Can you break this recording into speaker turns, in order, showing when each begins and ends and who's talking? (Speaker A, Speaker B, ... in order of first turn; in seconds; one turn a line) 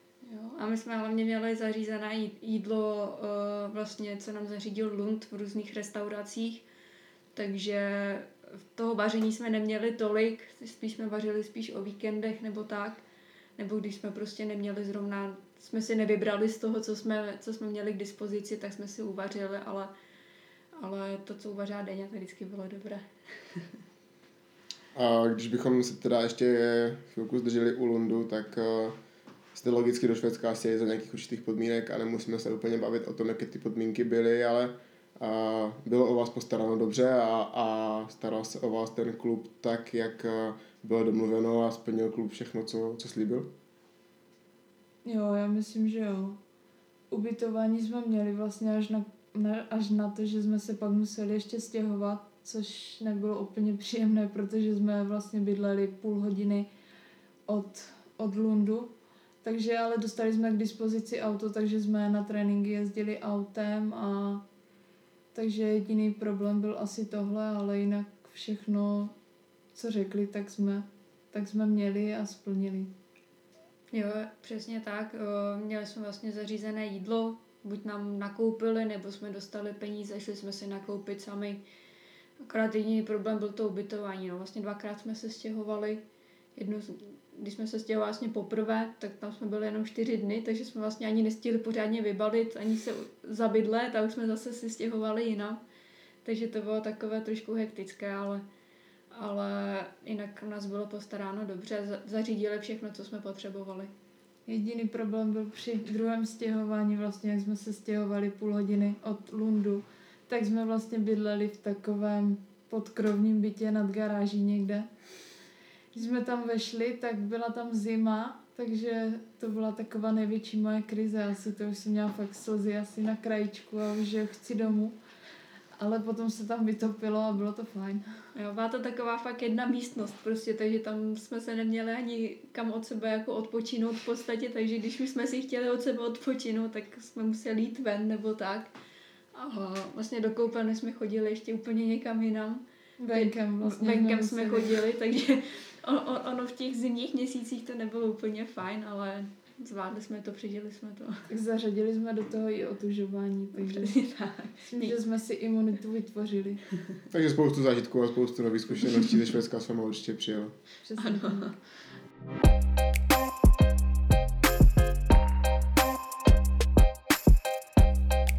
Speaker A: 0.2-6.6
Speaker A: 7.3-13.0
Speaker A: 13.6-19.9
Speaker A: 20.7-23.8
Speaker B: 24.9-28.9
Speaker B: 29.5-43.5
Speaker C: 45.0-46.4
Speaker C: 47.1-56.7
Speaker C: 57.5-58.9
Speaker C: 59.4-64.4
Speaker C: 65.3-69.1
Speaker C: 69.7-72.9
Speaker A: 73.9-81.6
Speaker A: 82.4-86.0
Speaker A: 86.5-95.6
Speaker A: 96.2-98.4
Speaker A: 99.1-103.9
Speaker C: 104.5-114.9
Speaker C: 115.9-125.0
Speaker C: 125.8-128.1
Speaker A: 128.3-138.7
Speaker A: 139.3-151.2
Speaker C: 143.0-144.8
Speaker C: 151.3-153.9
Speaker A: 153.6-155.0
Speaker C: 154.6-156.6
Speaker B: 157.1-160.5
Speaker C: 160.8-161.5
Speaker A: 161.0-161.5